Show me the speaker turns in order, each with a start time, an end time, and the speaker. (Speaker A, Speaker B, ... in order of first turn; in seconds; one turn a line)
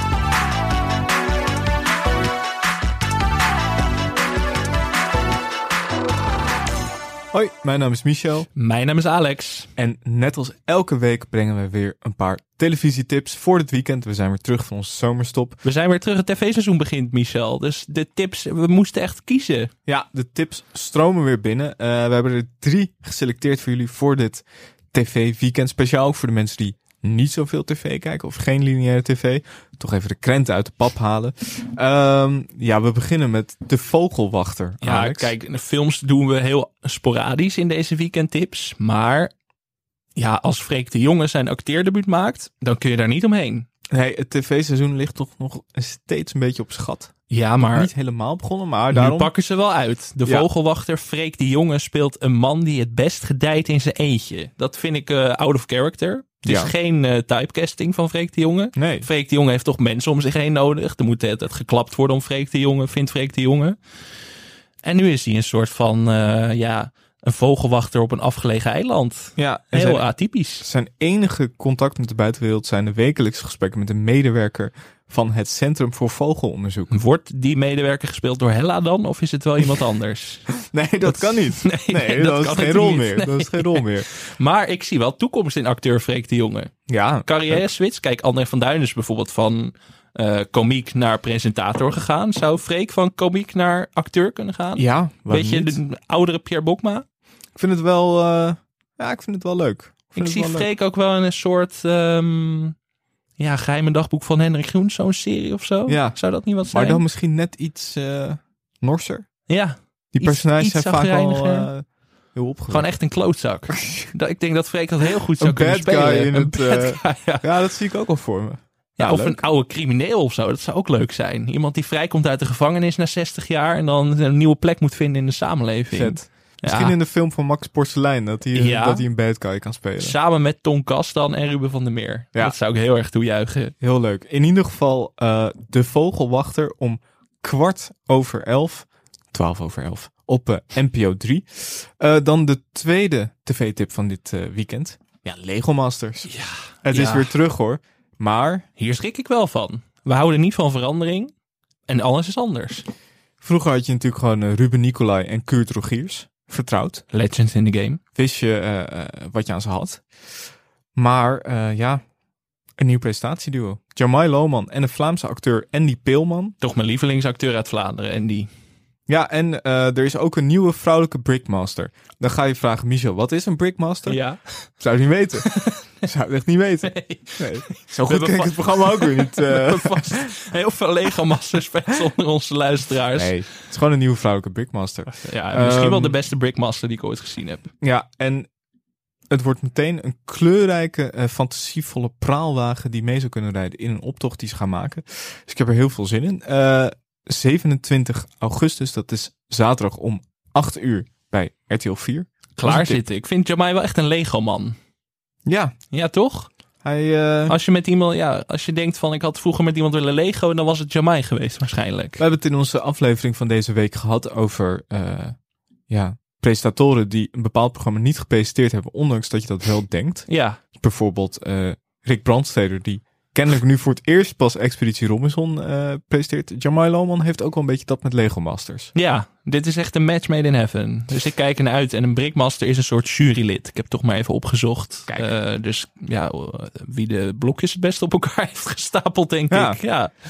Speaker A: 7.3-8.5
Speaker B: 8.6-9.7
Speaker A: 9.8-15.6
Speaker B: 15.6-19.7
Speaker A: 19.9-35.3
Speaker B: 34.8-39.3
Speaker B: 40.2-43.7
Speaker A: 43.9-49.3
Speaker B: 47.3-47.9
Speaker B: 48.9-63.8
Speaker A: 56.5-56.7
Speaker A: 58.8-59.1
Speaker B: 64.8-70.7
Speaker A: 69.4-70.1
Speaker A: 70.6-76.9
Speaker B: 76.9-80.4
Speaker A: 80.6-84.1
Speaker B: 81.1-86.7
Speaker A: 86.9-87.6
Speaker B: 87.2-97.0
Speaker A: 94.8-95.8
Speaker A: 97.6-100.7
Speaker B: 100.1-102.8
Speaker B: 103.4-107.0
Speaker A: 105.9-106.2
Speaker A: 106.7-109.3
Speaker B: 109.5-111.7
Speaker A: 110.1-112.9
Speaker B: 112.7-117.5
Speaker A: 113.7-114.1
Speaker A: 115.4-119.4
Speaker B: 119.0-127.0
Speaker A: 125.9-130.2
Speaker B: 128.5-129.1
Speaker B: 130.0-133.7
Speaker A: 133.8-146.3
Speaker B: 146.3-147.4
Speaker A: 146.8-148.7
Speaker B: 148.8-151.3
Speaker B: 151.9-152.9
Speaker A: 153.4-157.1
Speaker B: 157.1-158.0
Speaker A: 158.2-160.0
Speaker A: 161.0-162.0
Speaker A: 162.8-166.6
Speaker B: 166.6-168.5
Speaker A: 169.1-174.2
Speaker B: 174.1-174.7
Speaker A: 174.8-180.3
Speaker B: 175.4-175.9
Speaker B: 176.9-183.4
Speaker A: 183.1-186.2
Speaker B: 185.1-187.7
Speaker A: 187.8-188.5
Speaker A: 189.3-203.0
Speaker B: 202.6-204.8
Speaker A: 205.5-205.7
Speaker B: 205.9-206.5
Speaker A: 206.8-207.6
Speaker B: 207.5-212.2
Speaker A: 212.2-215.3
Speaker A: 215.9-228.9
Speaker B: 220.3-220.6
Speaker B: 228.9-240.1
Speaker A: 239.5-239.8